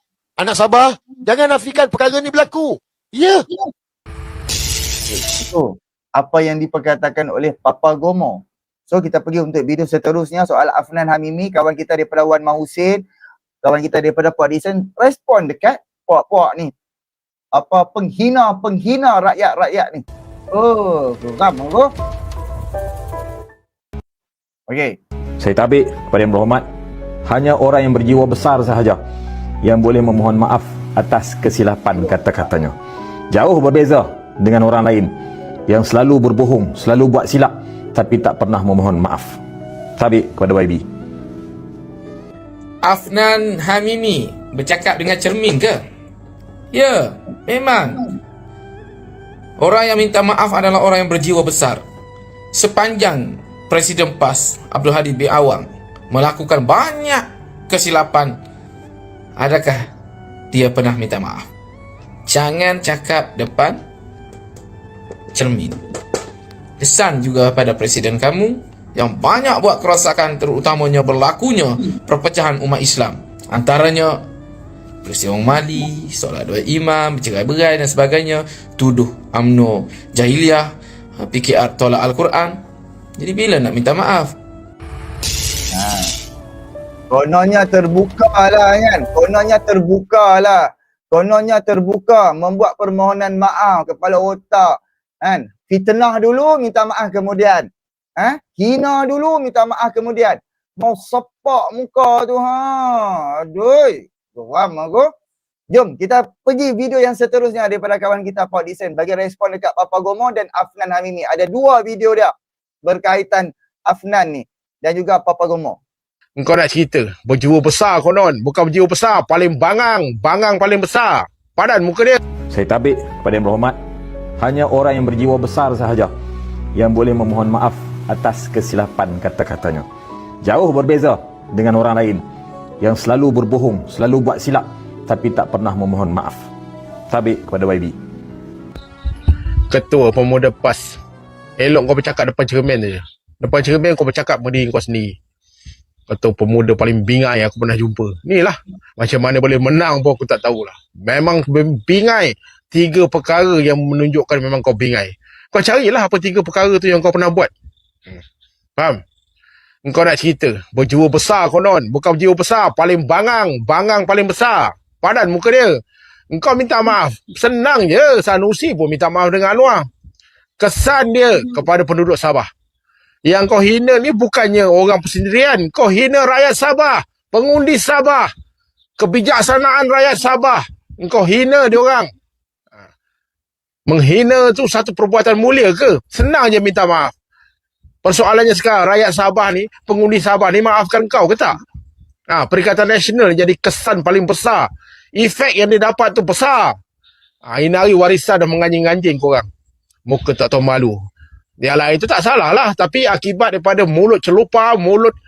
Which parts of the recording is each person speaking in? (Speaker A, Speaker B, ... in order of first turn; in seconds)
Speaker A: 0.4-3.4
Speaker B: 5.1-13.0, 13.6-16.7, 17.5-21.9, 24.7-25.0, 85.7-86.1, 87.1-105.1, 105.7-112.3, 112.8-115.8
Speaker C: 25.4-26.7, 27.2-29.0, 29.6-32.8, 33.3-35.1, 35.7-39.4, 40.0-40.8, 122.5-123.8, 124.4-126.1, 126.8-129.9, 130.4-132.2, 132.8-136.5, 137.1-137.9
Speaker D: 42.8-45.8, 46.7-48.1, 49.6-51.8, 52.5-58.4, 59.4-59.9, 60.5-61.5, 62.3-63.8, 65.3-65.8, 66.8-74.2, 75.0-82.6, 83.2-84.3
Speaker E: 116.4-122.2, 139.7-140.9, 141.6-145.1, 146.1-157.5, 159.8-165.8, 166.3-169.9, 170.6-172.5, 173.2-178.3, 179.0-182.1, 183.9-187.1, 188.0-191.5, 192.3-194.6, 195.2-196.8, 197.5-199.5, 200.1-201.0, 201.6-205.1